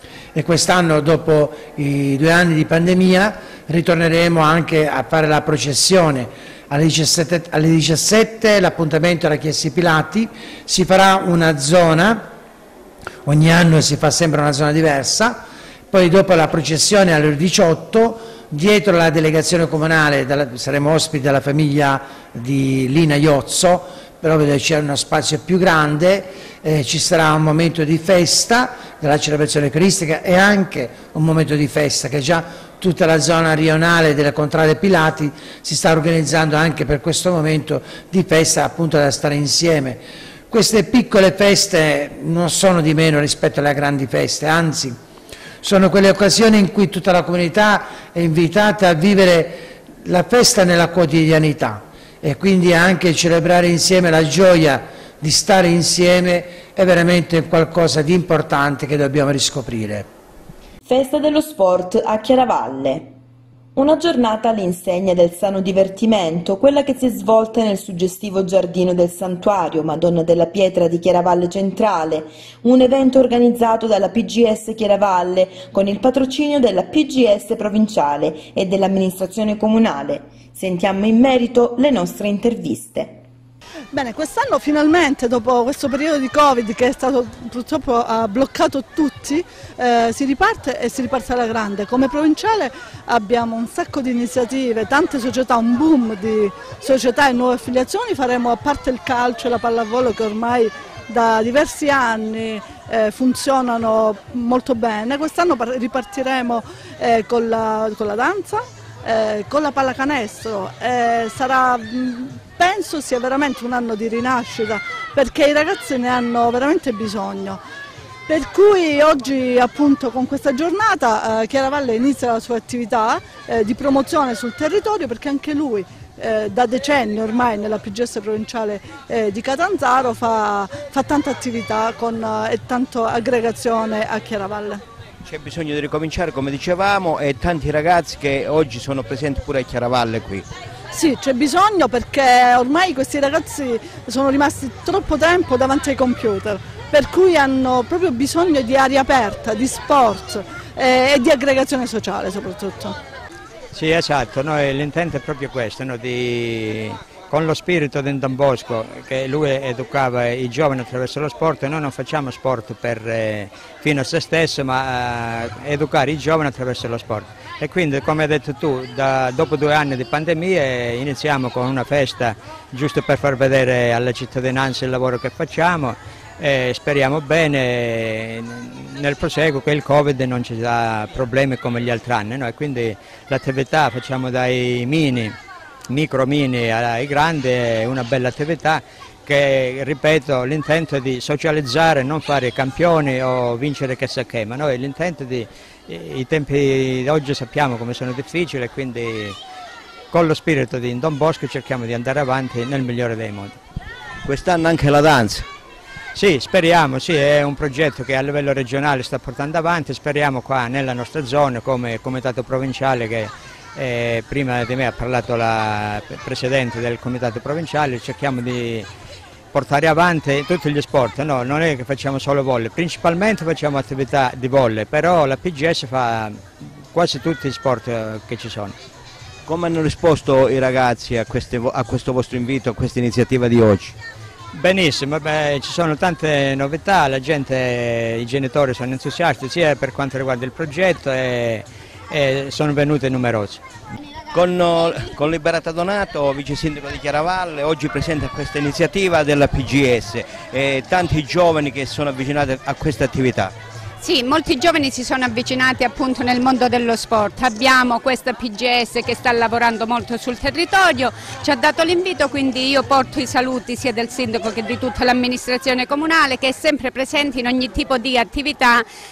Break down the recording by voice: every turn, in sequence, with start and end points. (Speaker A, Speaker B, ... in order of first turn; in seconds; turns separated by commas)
Speaker A: 0.3-12.3, Speaker A: 13.2-45.0, Speaker A: 45.6-60.1, Speaker B: 60.8-63.1, Speaker B: 63.7-83.2, Speaker C: 83.9-117.6, Speaker C: 118.3-134.8, Speaker D: 135.2-140.5, Speaker C: 140.9-153.0, Speaker E: 153.7-185.4, Speaker E: 185.9-199.4, Speaker E: 200.1-203.6, Speaker D: 204.2-205.5, Speaker E: 206.1-218.9, Speaker E: 219.5-228.8, Speaker D: 229.4-234.0, Speaker E: 234.5-243.6, Speaker D: 244.3-253.5, Speaker F: 254.0-268.9